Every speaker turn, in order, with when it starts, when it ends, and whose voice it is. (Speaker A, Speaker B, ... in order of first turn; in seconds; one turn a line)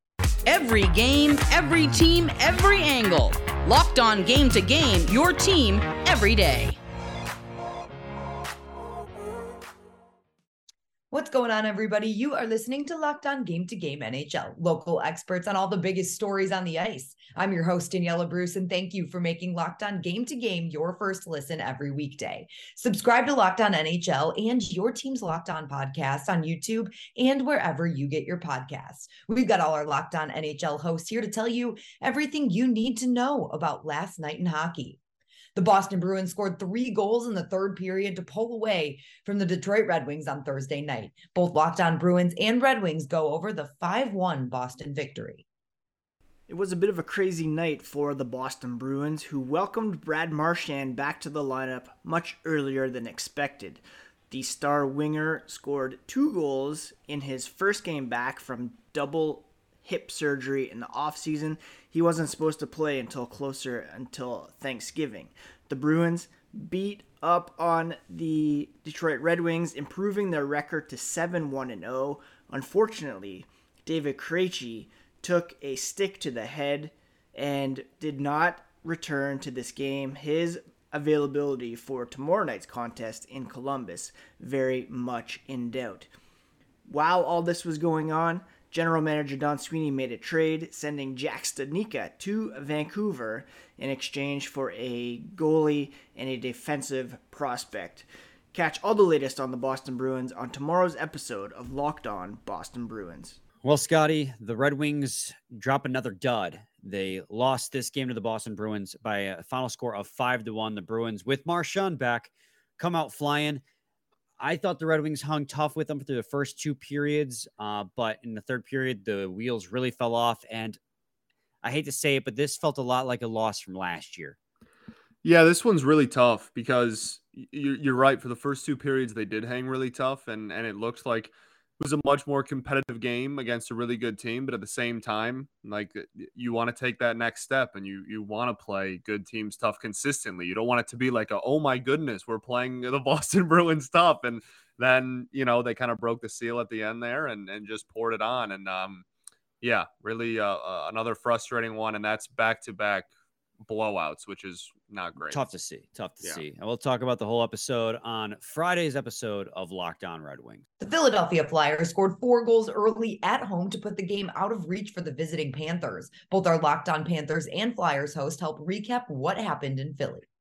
Speaker A: 0.5-6.7
Speaker B: 11.1-35.0
Speaker B: 35.5-45.4
Speaker C: 46.5-86.1
Speaker C: 86.9-103.4
Speaker D: 103.6-112.3
Speaker D: 112.8-113.6
Speaker D: 114.4-120.8
Speaker D: 121.6-124.3
Speaker E: 125.2-149.0
Speaker E: 149.6-153.1
Speaker E: 153.6-155.4
Speaker D: 155.3-160.6
Speaker B: 160.8-170.2